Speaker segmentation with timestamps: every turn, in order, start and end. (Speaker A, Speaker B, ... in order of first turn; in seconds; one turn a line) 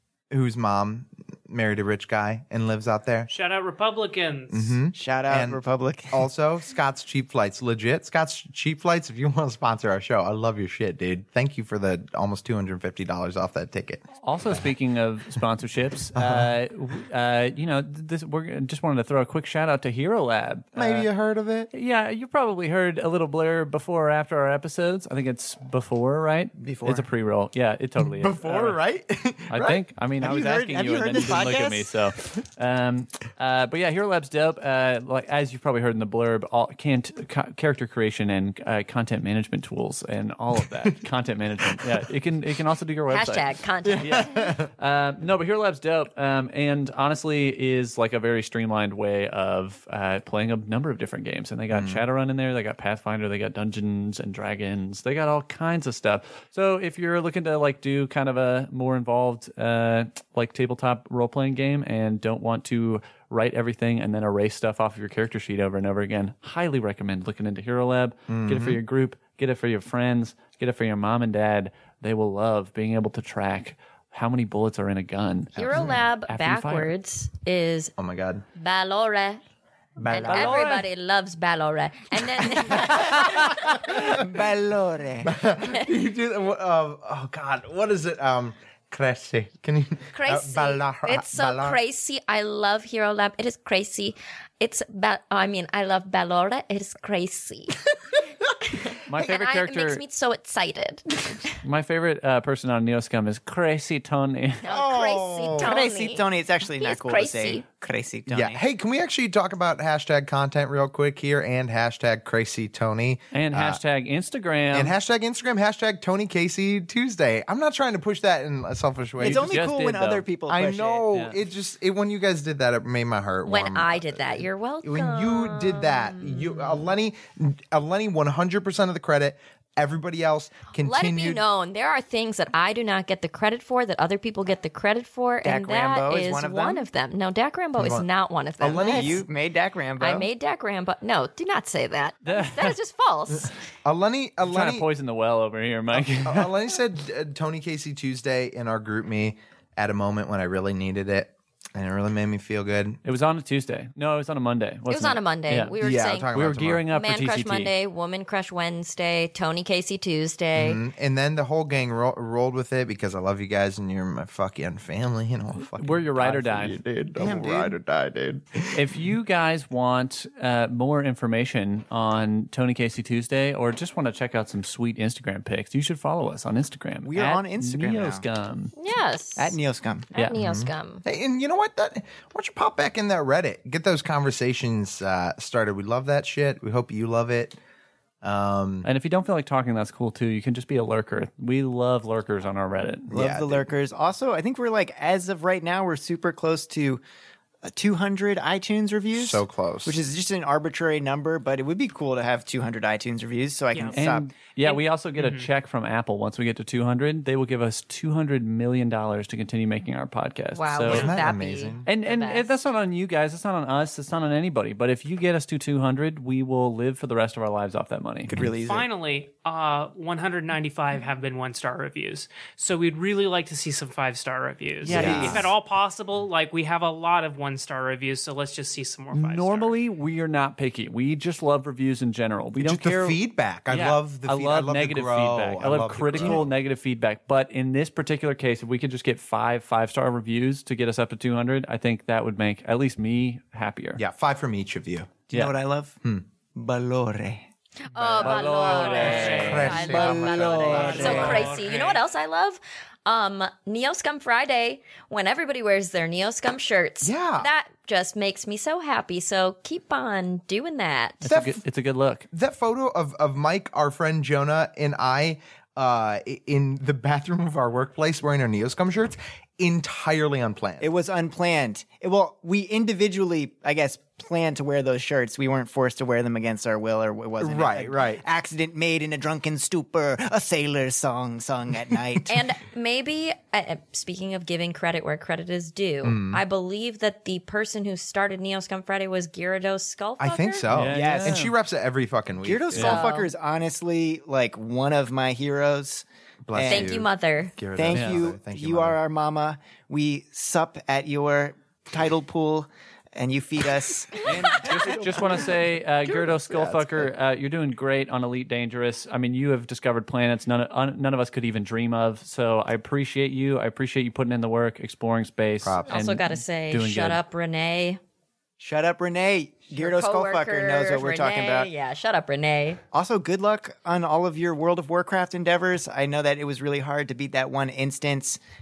Speaker A: 0.3-3.3
Speaker B: 3.3-4.8
Speaker A: 4.5-14.6
Speaker C: 5.0-6.3
Speaker D: 14.2-21.1
Speaker A: 16.1-16.5
Speaker A: 20.8-21.7
Speaker D: 21.7-28.8
Speaker C: 26.6-27.1
Speaker A: 28.0-29.8
Speaker D: 29.5-76.9
Speaker C: 30.2-31.9
Speaker E: 43.1-44.3
Speaker A: 43.8-44.7
Speaker A: 51.7-52.0
Speaker A: 68.3-68.8
Speaker A: 75.6-76.0
Speaker E: 75.6-77.9
Speaker A: 78.0-78.4
Speaker E: 78.6-79.4
Speaker A: 80.0-80.8
Speaker E: 80.1-84.1
Speaker C: 80.2-80.5
Speaker D: 80.2-80.7
Speaker C: 83.9-85.4
Speaker A: 85.2-91.8
Speaker E: 90.1-97.9
Speaker E: 98.6-101.5
Speaker D: 99.1-100.0
Speaker D: 101.6-104.7
Speaker E: 104.6-106.3
Speaker A: 104.7-105.8
Speaker C: 105.6-108.6
Speaker E: 106.8-107.6
Speaker A: 108.3-113.8
Speaker D: 113.3-114.9
Speaker A: 114.7-119.6
Speaker D: 119.2-120.3
Speaker C: 119.2-121.0
Speaker A: 120.5-131.4
Speaker D: 121.1-121.4
Speaker E: 123.5-126.8
Speaker E: 130.8-139.2
Speaker C: 135.4-136.8
Speaker A: 137.8-138.1
Speaker A: 138.6-139.2
Speaker C: 138.6-140.3
Speaker E: 140.0-143.5
Speaker D: 142.2-142.8
Speaker A: 143.8-144.9
Speaker D: 144.4-146.5
Speaker A: 145.9-153.0
Speaker D: 153.0-155.8
Speaker E: 154.9-156.3
Speaker A: 155.8-156.8
Speaker D: 156.3-157.7
Speaker E: 156.9-160.8
Speaker A: 160.6-169.0
Speaker D: 165.7-166.8
Speaker C: 167.2-167.8
Speaker D: 168.7-178.7
Speaker C: 177.0-178.2
Speaker E: 178.8-179.6
Speaker C: 179.4-180.1
Speaker E: 180.1-181.0
Speaker A: 180.4-187.6
Speaker A: 188.2-188.9
Speaker D: 188.8-193.1
Speaker A: 193.1-193.7
Speaker C: 193.1-197.0
Speaker C: 197.6-204.3
Speaker A: 199.2-200.0
Speaker B: 203.7-204.0
Speaker D: 203.9-211.2
Speaker B: 204.6-205.5
Speaker E: 210.5-212.6
Speaker A: 210.8-211.9
Speaker D: 211.9-218.3
Speaker A: 218.3-218.8
Speaker C: 218.3-218.8
Speaker B: 218.6-229.8
Speaker C: 224.8-225.5
Speaker D: 224.8-225.5
Speaker A: 224.9-225.5
Speaker D: 229.1-244.0
Speaker A: 232.6-236.5
Speaker C: 236.2-236.4
Speaker A: 244.0-245.2
Speaker C: 245.3-246.0
Speaker C: 246.5-247.5
Speaker E: 247.9-261.2
Speaker D: 248.0-251.6
Speaker B: 248.6-249.8
Speaker A: 249.4-251.4
Speaker C: 249.9-251.3
Speaker B: 250.7-252.0
Speaker A: 257.0-257.5
Speaker D: 261.2-262.3
Speaker A: 261.2-261.6
Speaker A: 262.3-270.9
Speaker C: 270.8-282.4
Speaker A: 277.4-278.2
Speaker E: 282.3-290.7
Speaker A: 286.0-286.4
Speaker A: 290.2-293.1
Speaker D: 290.7-291.5
Speaker C: 290.9-291.4
Speaker C: 292.4-297.0
Speaker E: 292.8-293.3
Speaker A: 296.5-299.0
Speaker E: 296.7-297.6
Speaker C: 297.8-304.7
Speaker D: 297.9-298.2
Speaker D: 304.2-317.2
Speaker A: 304.6-307.1
Speaker A: 315.6-316.0
Speaker E: 315.9-318.0
Speaker C: 318.6-321.7
Speaker E: 319.8-322.8
Speaker C: 322.9-328.4